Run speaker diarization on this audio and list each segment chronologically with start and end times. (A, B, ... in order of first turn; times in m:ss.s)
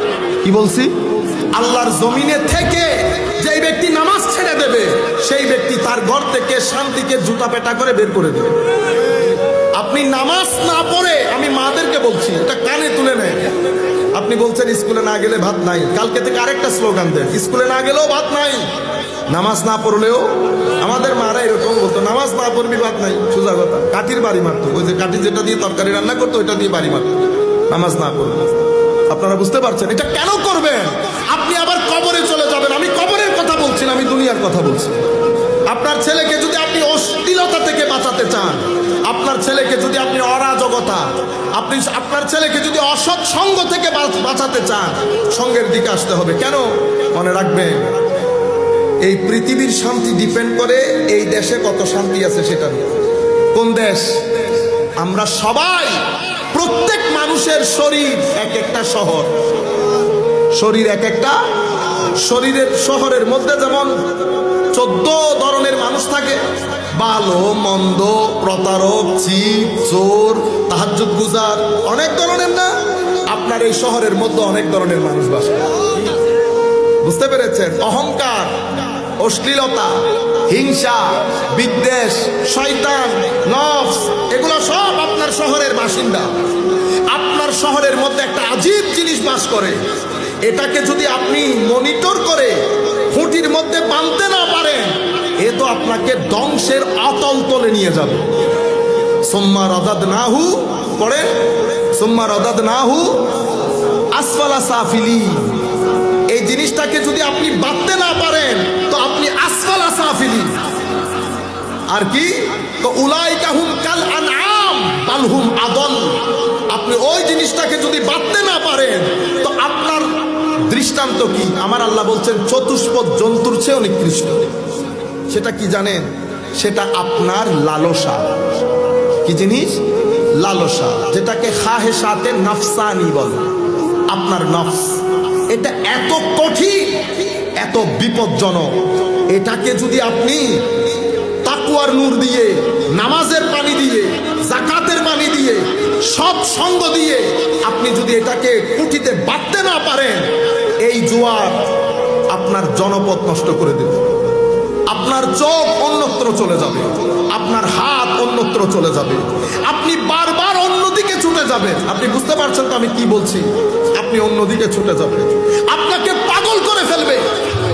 0:00.4-0:01.0 A
0:01.5-0:08.6 A
0:09.8-0:13.5 A
0:14.1-0:18.7 A
0:19.3-0:28.5 A
0:29.1-0:35.0 A
0:35.7-0:47.9 A
0:49.0-0:53.0 A
0:53.5-0:54.2 A
0:55.0-0:59.3 A
1:00.5-1:01.4 A
1:02.2-1:04.0 A
1:04.7-1:06.4 A
1:06.9-1:15.9 A
1:17.0-1:18.5 A
1:19.2-1:26.3 A
1:27.1-1:29.8 A
1:30.4-1:38.3 A
1:39.3-1:41.3 A
1:41.9-1:43.3 A
1:44.1-1:45.6 A
1:46.3-1:50.6 A
1:51.9-2:04.5 A
2:05.3-2:08.4 A
2:09.2-2:09.8 A
2:10.4-2:13.5 A
2:14.1-2:20.7 A
2:21.4-2:30.3 A
2:30.8-2:31.6 A
2:32.3-2:34.1 A
2:34.9-2:47.3 A